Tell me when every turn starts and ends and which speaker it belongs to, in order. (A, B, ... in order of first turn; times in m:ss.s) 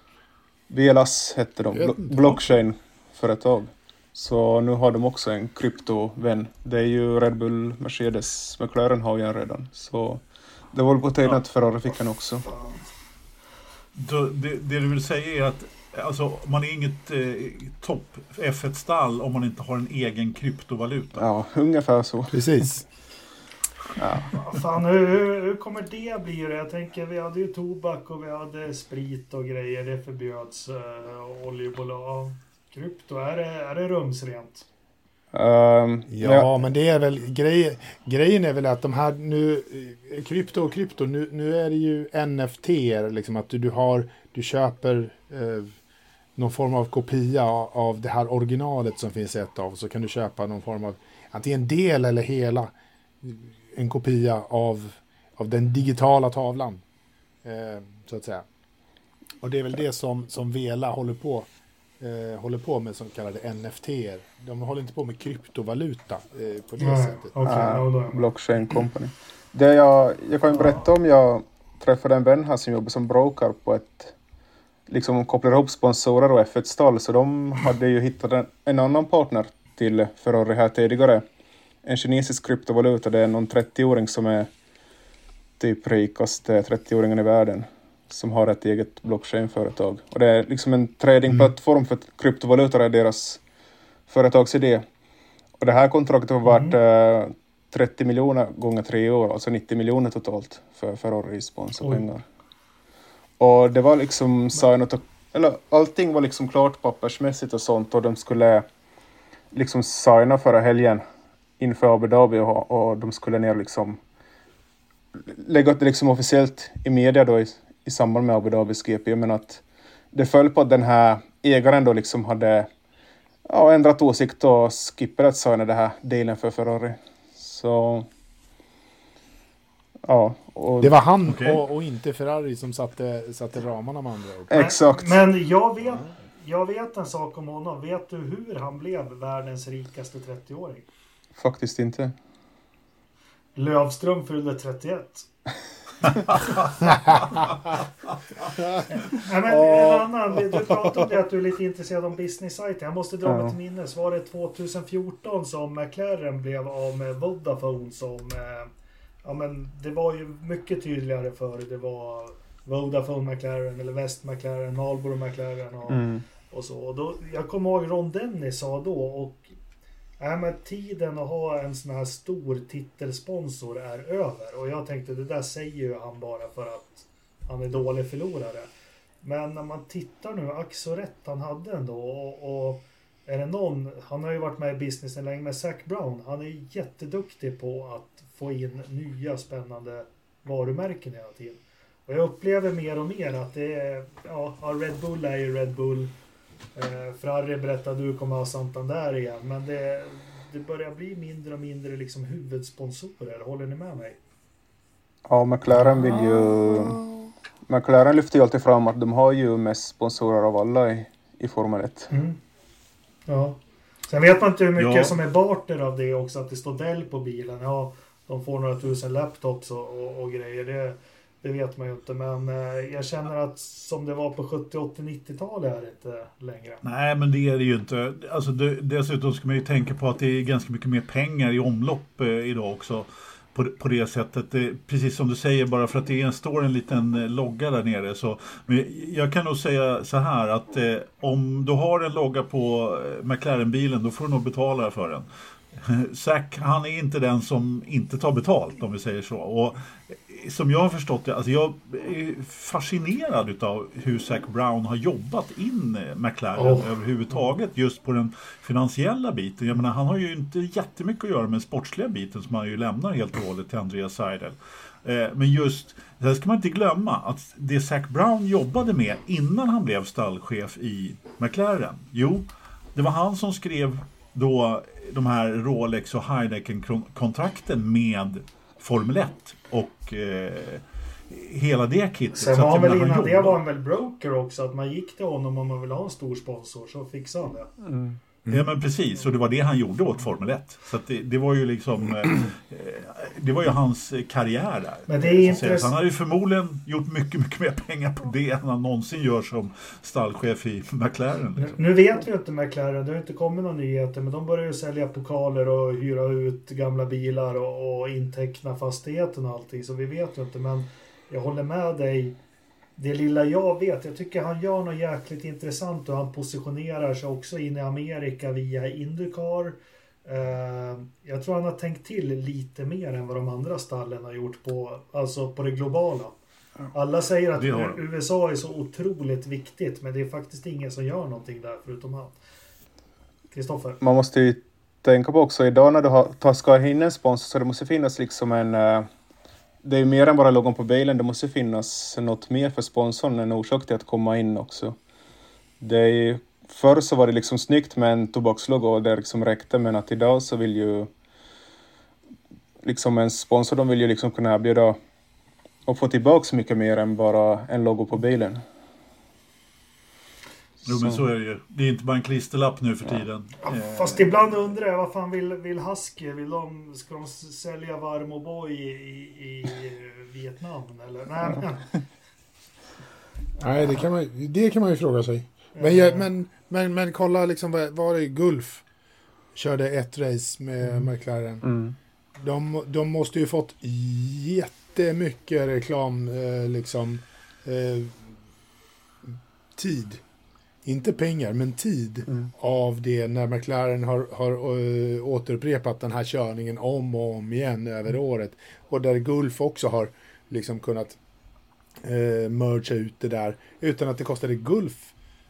0:00.7-0:12.5 A
0:01.7-0:02.4 B
0:14.0-0:21.3 C
0:21.2-0:22.7 A
0:22.3-0:22.8 B
0:24.0-0:24.3 A
0:24.3-0:34.7 D
0:35.3-0:36.5 A
0:36.1-0:45.8 B
0:46.4-0:56.8 B
0:57.4-0:58.4 B
0:59.4-1:01.5 B
1:02.0-1:07.4 B
1:06.8-1:08.3 D
1:07.4-1:14.2 A
1:10.5-1:10.8 D
1:14.9-1:21.2 A
1:21.8-1:24.5 A
1:25.6-1:33.4 A
1:34.1-1:34.8 A
1:35.6-1:42.2 A
1:36.4-1:36.8 D
1:43.4-1:48.6 A
1:49.5-1:51.0 A
1:51.6-1:54.0 A
1:55.2-1:59.6 A
2:00.1-2:02.7 A
2:03.5-2:08.1 A
2:10.0-2:11.0 A
2:10.8-2:14.6 B
2:11.3-2:11.6 C
2:14.5-2:15.3 A
2:14.5-2:20.9 D
2:21.4-2:22.2 A
2:23.6-2:25.3 D
2:26.3-2:26.6 C
2:28.9-2:38.7 D
2:29.5-2:30.1 B
2:33.2-2:33.6 A
2:39.2-2:49.5 D
2:45.9-2:46.2 A
2:50.2-2:58.7 D
2:59.2-3:16.1 D
3:16.8-3:24.2 D
3:25.3-3:27.0 A
3:25.9-3:27.3 B
3:27.7-3:32.1 A
3:32.1-3:32.4 D
3:33.3-3:46.8 D
3:34.8-3:35.2 C
3:46.8-4:43.6 C
4:16.6-4:16.9 D
4:42.3-4:47.7 D
4:47.8-4:48.2 A
4:48.5-5:01.9 C
4:55.1-4:55.9 D
5:01.6-5:12.4 D
5:13.0-5:26.4 D
5:26.9-5:32.4 D
5:27.6-5:28.0 C
5:33.5-5:34.0 D
5:34.0-5:39.1 A
5:39.8-5:45.0 A
5:45.8-5:51.1 A
5:52.8-5:55.0 A
5:55.9-5:58.6 A
6:00.8-6:04.4 C
6:00.9-6:01.2 A
6:03.6-6:11.9 D
6:13.6-6:18.8 B
6:15.7-6:16.3 D
6:19.5-6:21.6 B
6:21.6-6:22.0 A
6:22.4-6:28.4 B
6:29.3-6:30.2 B
6:30.8-6:41.2 B
6:42.0-6:45.1 B